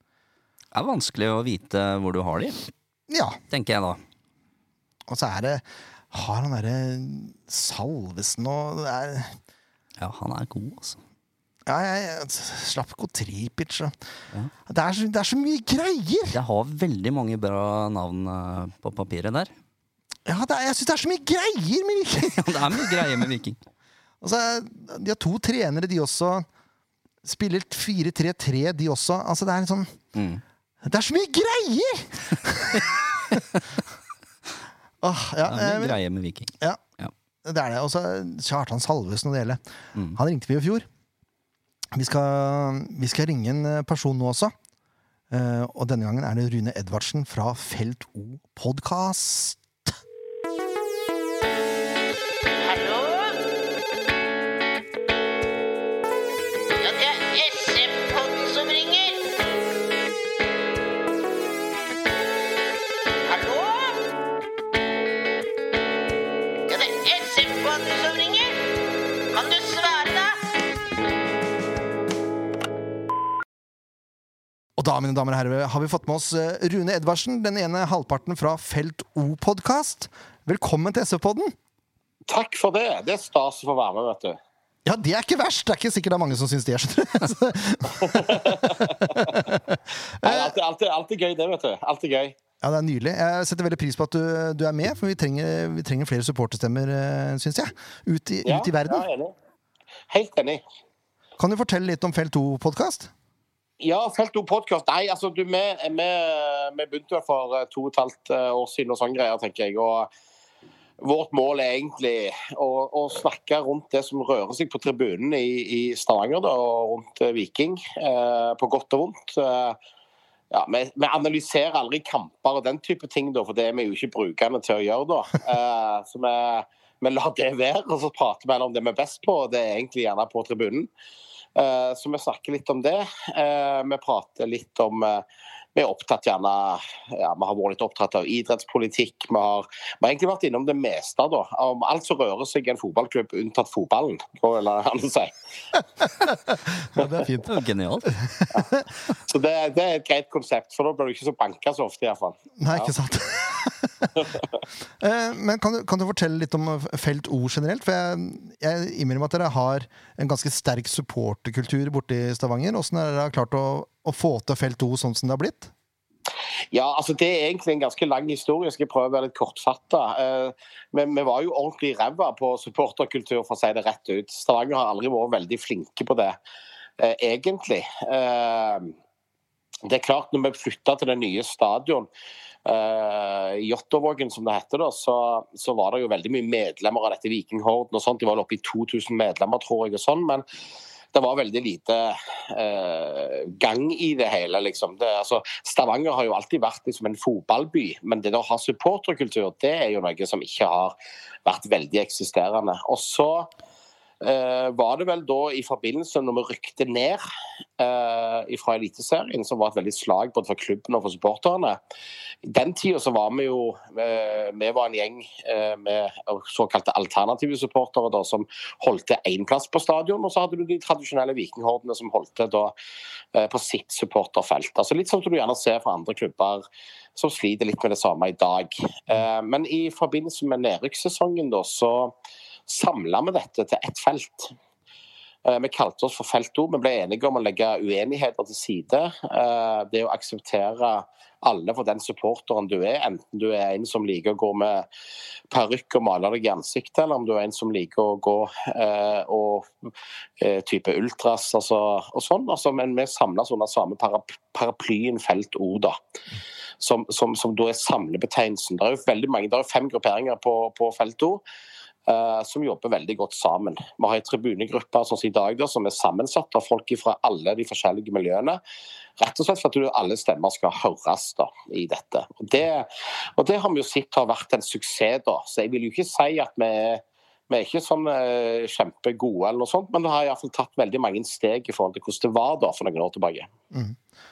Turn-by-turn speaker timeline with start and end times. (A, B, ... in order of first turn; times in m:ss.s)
0:00.7-0:02.6 A
0:03.1-0:03.4 B
0:03.5-0:04.0 A
0:05.1-0:09.4 B
0:10.0-0:11.0 A
0:11.7-0:13.9 B
0:14.7-0:16.4 B
0:16.3-0:19.5 A
0:20.2-0:23.2 B
0:22.4-0:23.6 A
0:24.2-0:26.5 B
0:27.2-0:29.9 B
0:30.1-0:30.4 A
0:30.8-0:32.9 B
0:35.0-0:36.0 B
0:35.4-0:37.1 A
0:37.4-0:39.6 B
0:40.1-0:40.8 B
0:41.9-0:44.5 B
0:45.3-0:49.6 B
0:52.6-0:53.4 C
0:56.8-0:59.3 C
1:03.3-1:04.1 C
1:06.7-1:08.5 C
1:09.3-1:10.4 C
1:14.8-1:21.5 B
1:22.3-1:24.4 D
1:24.8-1:30.5 B
1:28.0-1:29.3 D
1:30.2-1:32.4 D
1:32.6-1:39.0 B
1:38.4-1:39.3 D
1:40.1-1:40.6 D
1:41.4-1:43.1 B
1:43.8-1:50.1 D
1:51.0-1:59.8 D
2:00.5-2:10.9 D
2:11.6-2:15.2 D
2:15.7-2:25.3 D
2:26.2-2:27.5 B
2:27.4-2:28.2 A
2:28.1-2:28.9 B
2:29.2-2:32.9 D
2:32.6-2:34.2 B
2:35.0-2:45.7 B
2:46.7-2:56.4 D
2:57.0-2:58.9 D
2:59.8-3:02.1 D
3:02.6-3:10.4 D
3:11.1-3:23.5 D
3:24.2-3:27.2 D
3:27.8-3:31.8 D
3:32.4-3:42.7 D
3:43.3-3:46.6 D
3:47.2-3:52.1 D
3:52.7-3:54.5 D
3:55.4-4:04.9 D
4:05.5-4:09.7 D
4:10.4-4:16.0 D
4:16.8-4:21.4 D
4:22.1-4:28.6 D
4:29.2-4:43.5 D
4:43.7-4:44.0 B